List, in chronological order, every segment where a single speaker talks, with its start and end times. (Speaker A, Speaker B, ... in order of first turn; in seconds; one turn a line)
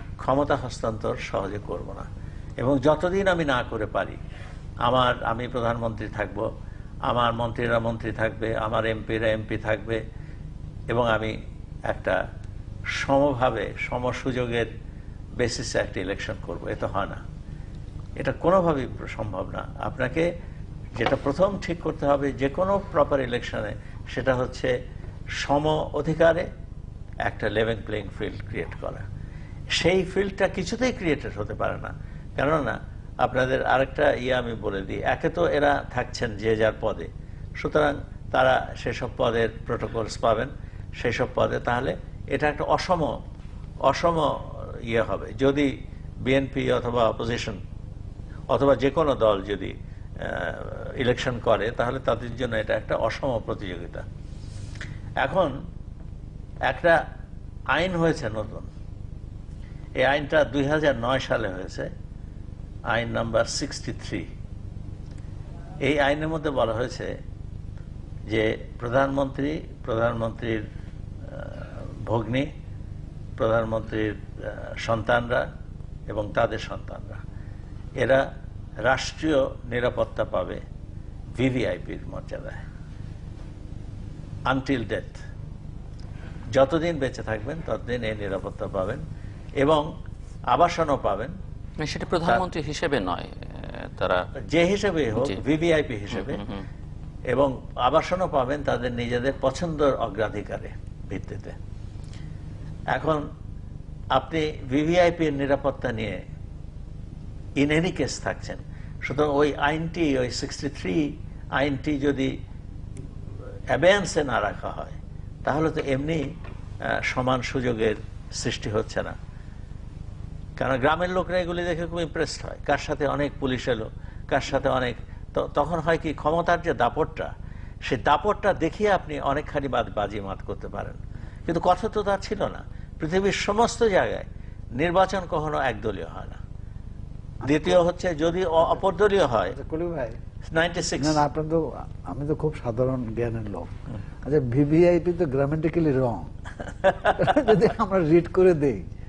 Speaker A: 0.2-2.1
Speaker A: 2.6-4.2
Speaker A: 4.9-6.5
Speaker A: 7.1-10.0
Speaker A: 10.9-11.3
Speaker A: 11.9-12.2
Speaker A: 13.0-14.7
Speaker A: 15.4-17.2
Speaker A: 18.2-20.3
Speaker A: 21.0-24.7
Speaker A: 25.4-26.5
Speaker A: 27.2-29.1
Speaker A: 29.7-43.1
Speaker A: 43.9-45.7
Speaker A: 46.2-47.6
Speaker A: 48.5-54.0
Speaker A: 55.2-55.5
Speaker A: 56.7-57.0
Speaker A: 57.7-58.7
Speaker A: 60.0-61.9
Speaker A: 62.9-64.3
Speaker A: 65.8-67.1
Speaker A: 68.3-70.7
Speaker A: 71.3-72.5
Speaker A: 73.4-75.5
Speaker A: 76.1-77.2
Speaker A: 78.9-80.6
Speaker A: 81.4-82.6
Speaker A: 84.5-85.2
Speaker A: 86.5-89.0
Speaker A: 89.6-89.9
Speaker A: 90.5-91.3
Speaker B: 91.8-94.3
Speaker A: 94.5-96.4
Speaker B: 96.1-96.6
Speaker A: 97.3-101.6
Speaker A: 102.9-103.3
Speaker A: 104.1-106.2
Speaker A: 107.6-112.3
Speaker A: 113.7-116.2
Speaker A: 116.9-119.2
Speaker A: 120.6-127.3
Speaker A: 127.8-134.3
Speaker A: 134.8-136.4
Speaker A: 137.4-139.6
Speaker C: 137.4-137.8
Speaker C: 139.5-140.2
Speaker A: 140.5-141.2
Speaker C: 141.0-143.7
Speaker C: 144.2-146.3
Speaker A: 146.8-147.6
Speaker C: 147.1-148.9